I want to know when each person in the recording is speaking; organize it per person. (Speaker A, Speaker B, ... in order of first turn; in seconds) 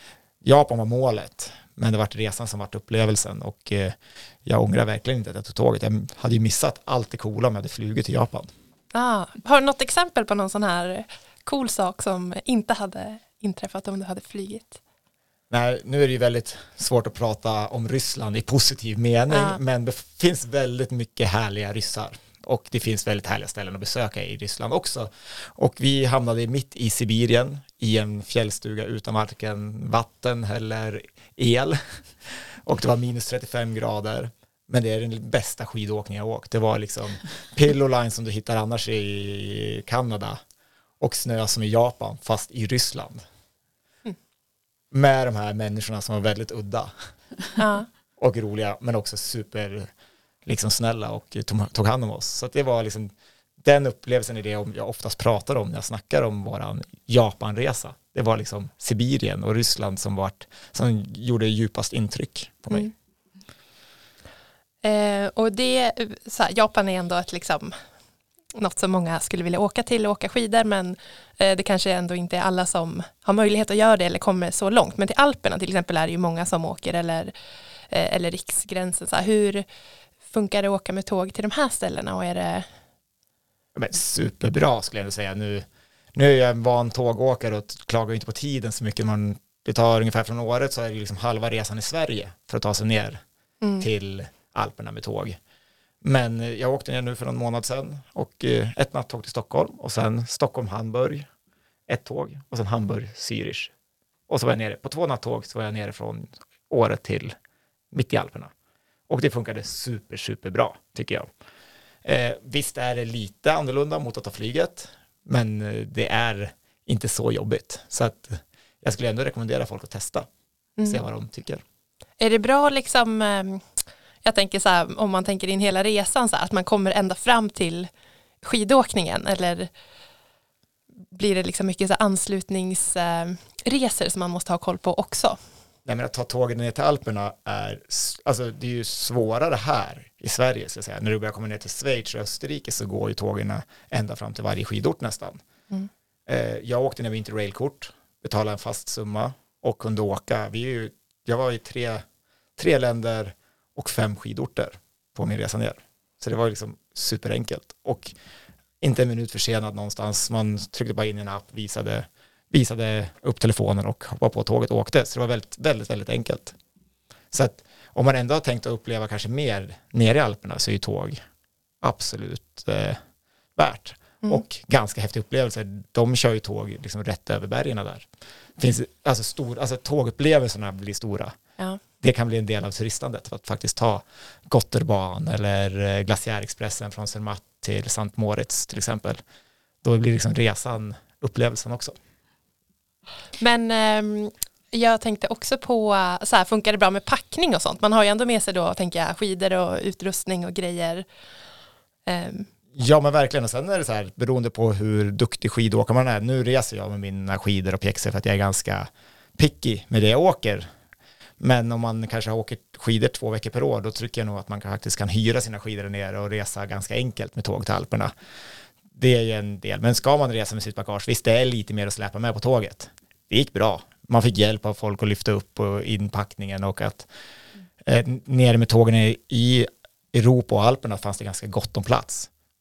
Speaker A: 0.4-8.5, 15.5-40.4, 41.0-43.2, 44.9-46.9, 48.2-49.9, 50.5-62.9, 83.7-93.2, 93.8-95.4, 96.0-101.3, 101.9-103.7, 104.3-107.3, 107.9-108.5, 109.1-111.3, 112.0-120.3, 120.8-121.6, 135.8-145.4, 146.3-152.0, 152.6-158.1, 158.8-166.6, 167.3-171.2, 171.8-173.0, 173.6-181.3, 182.0-189.2, 189.8-192.0, 202.7-210.7, 211.4-218.1, 218.9-227.1, 227.8-232.3
Speaker B: 8.9-14.8, 19.3-19.6, 47.6-47.9, 64.8-67.8, 68.5-77.3, 77.9-79.6, 80.3-82.7, 122.2-123.7, 124.2-127.9, 128.4-129.7, 131.1-135.4, 193.4-201.1, 202.1-202.5